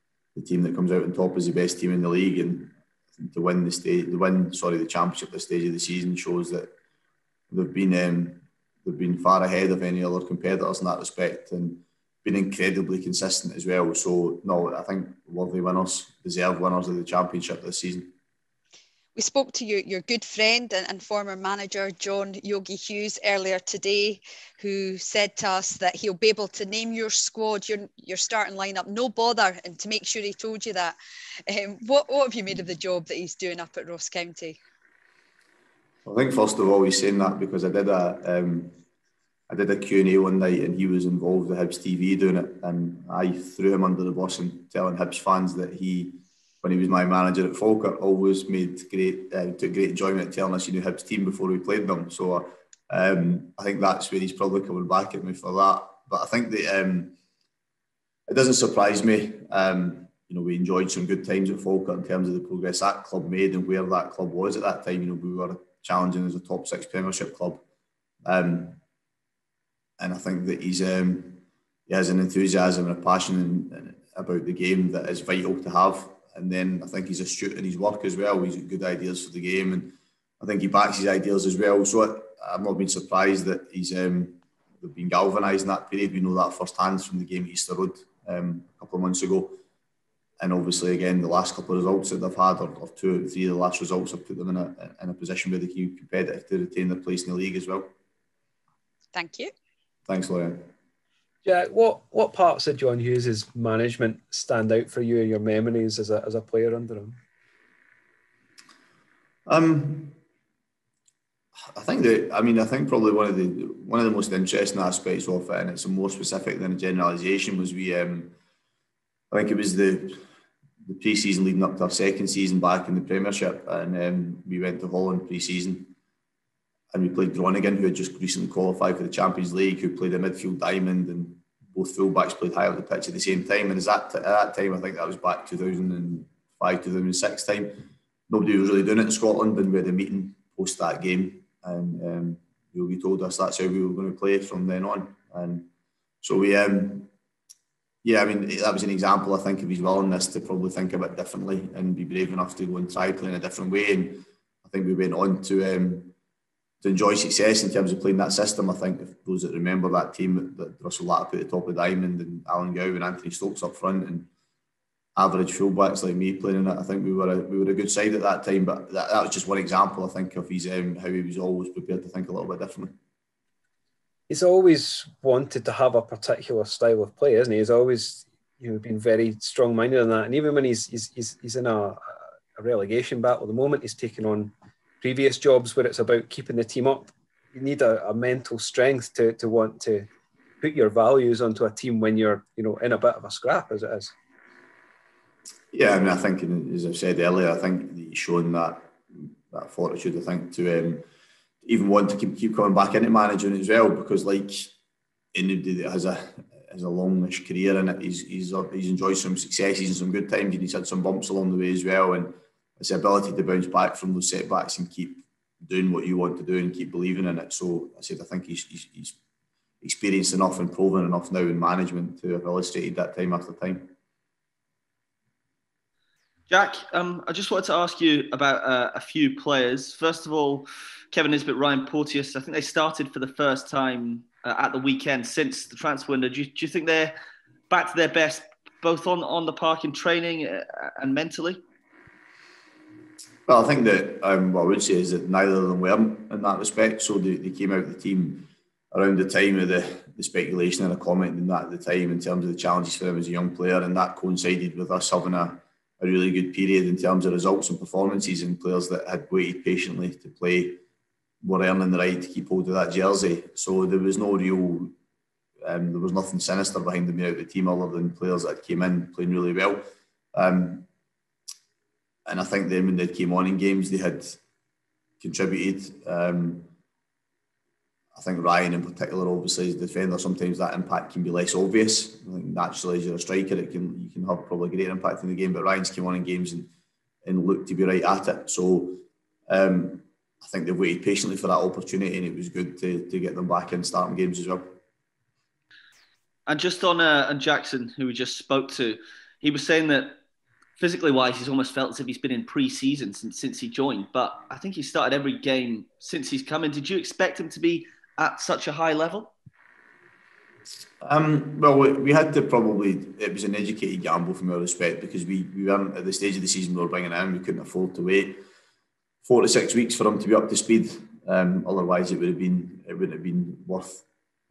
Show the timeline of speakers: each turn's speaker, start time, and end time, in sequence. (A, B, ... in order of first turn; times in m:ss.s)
0:00.4-0:06.7 A
0:07.5-0:18.1 A
0:19.2-0:31.0 B
0:31.5-0:34.6 B
0:36.0-0:38.8 A
0:39.5-0:57.1 A
0:58.3-1:07.6 A
1:08.2-1:08.8 A
1:10.0-1:29.6 A
1:30.4-1:37.9 A
1:39.1-1:39.5 B
1:40.1-1:40.7 A
1:41.4-1:47.2 C
1:49.5-1:50.2 A
1:51.7-1:58.3 A
1:59.3-2:00.2 A
2:00.8-2:05.9 A
2:06.9-2:25.7 A
2:26.2-2:27.1 A
2:28.0-2:36.1 A
2:36.8-2:44.3 A
2:45.2-2:52.9 A
2:54.3-3:10.1 C
3:10.6-3:14.1 C
3:15.7-3:19.0 A
3:19.5-3:21.0 A
3:21.6-3:24.7 A
3:25.3-3:39.2 A
3:39.8-3:43.9 A
3:46.5-3:57.2 D
3:57.7-4:01.6 D
4:03.5-4:20.8 A
4:21.4-4:24.9 A
4:25.6-4:29.8 A
4:30.3-4:30.9 A
4:32.3-4:34.4 A
4:35.2-4:36.7 A
4:38.1-4:46.7 A
4:47.2-4:54.7 A
4:56.5-5:00.2 D
5:00.8-5:09.3 D
5:11.0-5:18.4 A
5:19.2-5:24.0 A